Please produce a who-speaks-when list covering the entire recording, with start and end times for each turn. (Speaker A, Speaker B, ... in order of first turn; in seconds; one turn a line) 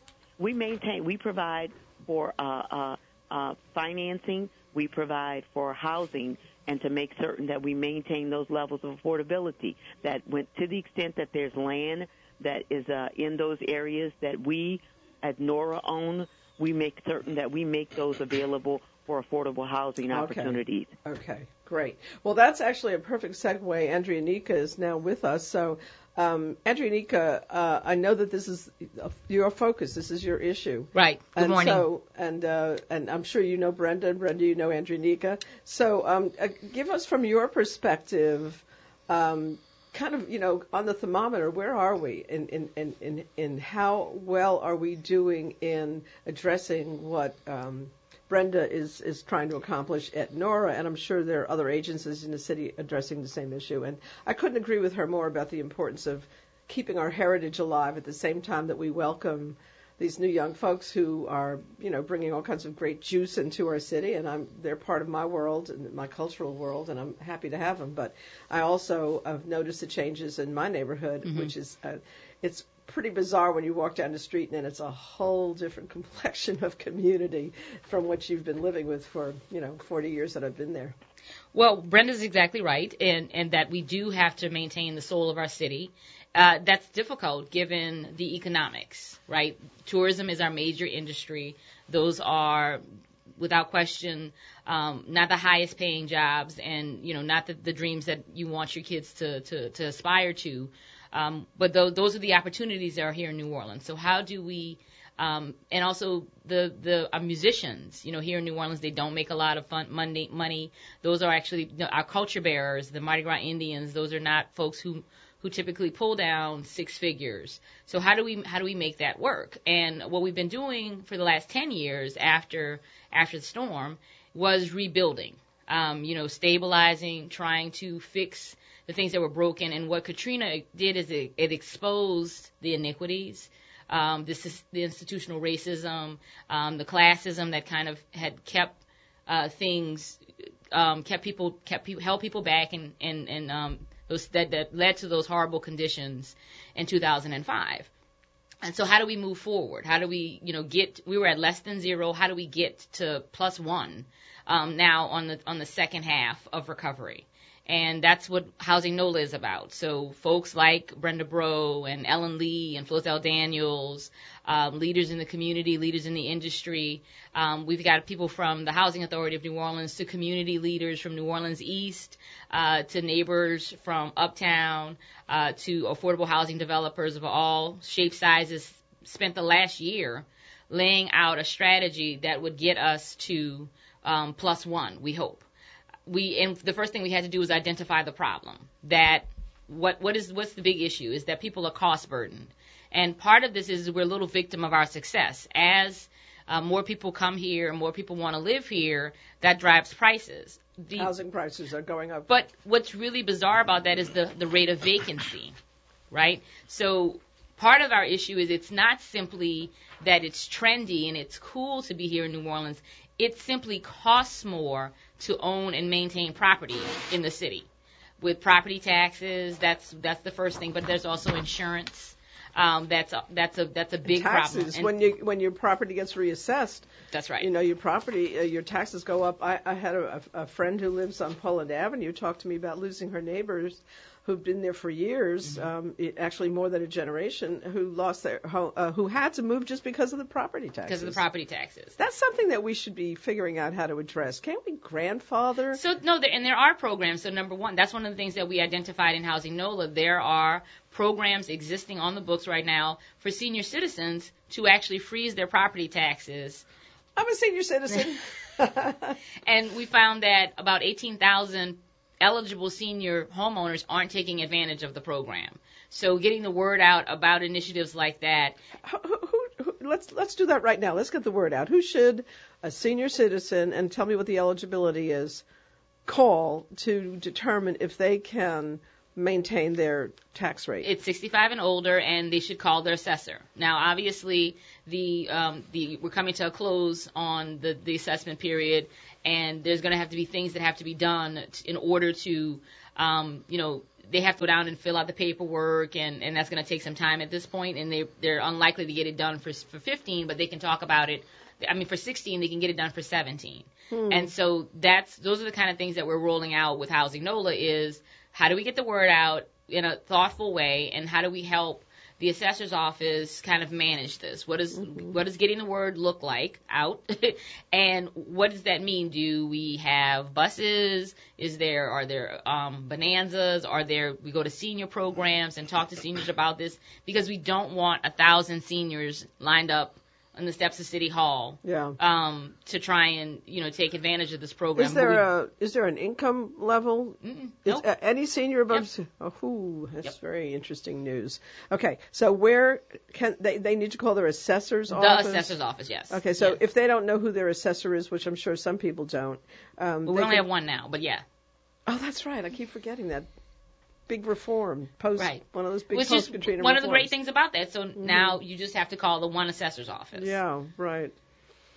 Speaker A: 0.4-20.9
Speaker B: 20.1-81.0
Speaker C: 30.9-31.9
Speaker C: 71.2-71.5
Speaker C: 81.5-92.8
Speaker C: 93.4-140.2
Speaker C: 140.7-147.9
Speaker C: 148.6-185.4
Speaker C: 186.1-201.1
Speaker B: 200.9-202.3
Speaker C: 202.3-205.5
Speaker C: 206.1-217.7
Speaker C: 218.2-224.9
Speaker B: 224.1-241.2
Speaker C: 227.1-227.5
Speaker C: 240.9-242.0
Speaker B: 242.0-245.8
Speaker C: 245.7-256.6
Speaker B: 257.2-259.2
Speaker C: 259.4-268.6
Speaker B: 268.8-275.4
Speaker B: 276.1-280.9
Speaker C: 280.8-335.3
Speaker B: 303.9-304.3
Speaker B: 314.8-315.1
Speaker B: 331.6-332.0
Speaker B: 334.8-345.6
Speaker C: 337.2-337.8
Speaker C: 344.9-346.6
Speaker B: 346.1-350.5
Speaker C: 350.1-351.2
Speaker B: 351.9-353.3
Speaker B: 354.1-357.1
Speaker C: 355.2-360.4
Speaker B: 358.0-358.4
Speaker B: 360.1-361.1